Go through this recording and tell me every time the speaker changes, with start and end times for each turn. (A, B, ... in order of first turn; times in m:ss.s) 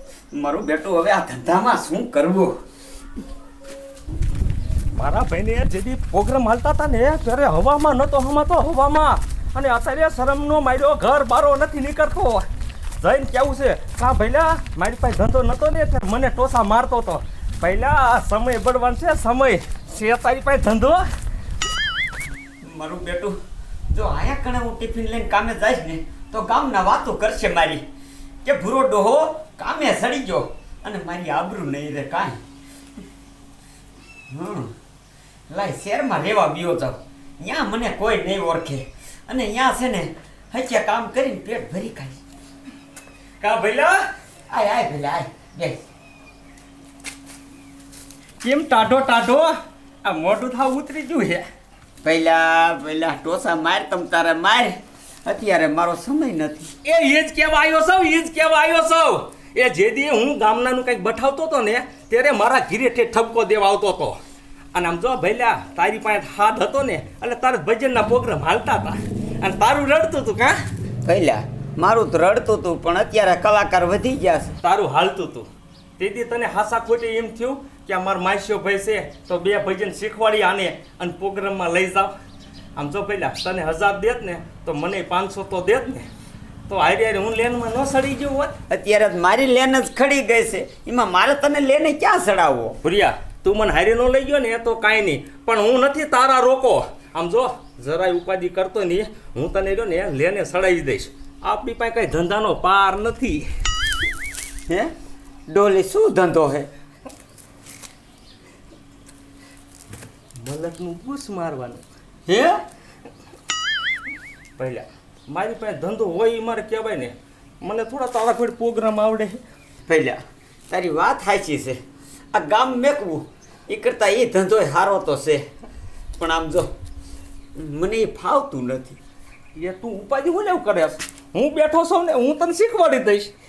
0:00.3-0:02.5 A
0:04.9-0:12.5 B
0:13.0-0:21.1 B
0:22.6-0:23.3 A
0:23.9-0:27.8 A
0:28.4-0:32.4 A
0:34.3-0:34.7 A
0:35.5-0:42.2 A
0:43.4-0:44.1 B
0:44.5-0:45.8 A
0:48.4-0:51.4 B
0:52.0-0:56.7 A
0:56.8-1:04.2 B
1:04.7-1:10.6 B
1:11.0-1:14.5 A
1:14.6-1:22.1 B
1:22.8-1:26.1 B
1:26.7-1:28.6 B
1:28.7-1:32.8 A
1:32.8-1:43.5 B
1:44.7-1:44.9 A
1:45.5-1:46.7 A
1:50.4-1:51.9 B
1:52.3-1:52.6 A
1:54.6-1:59.4 B
1:59.9-2:01.8 A
2:02.3-2:05.5 A
2:06.1-2:06.7 A
2:07.6-2:09.0 A
2:09.5-2:13.3 B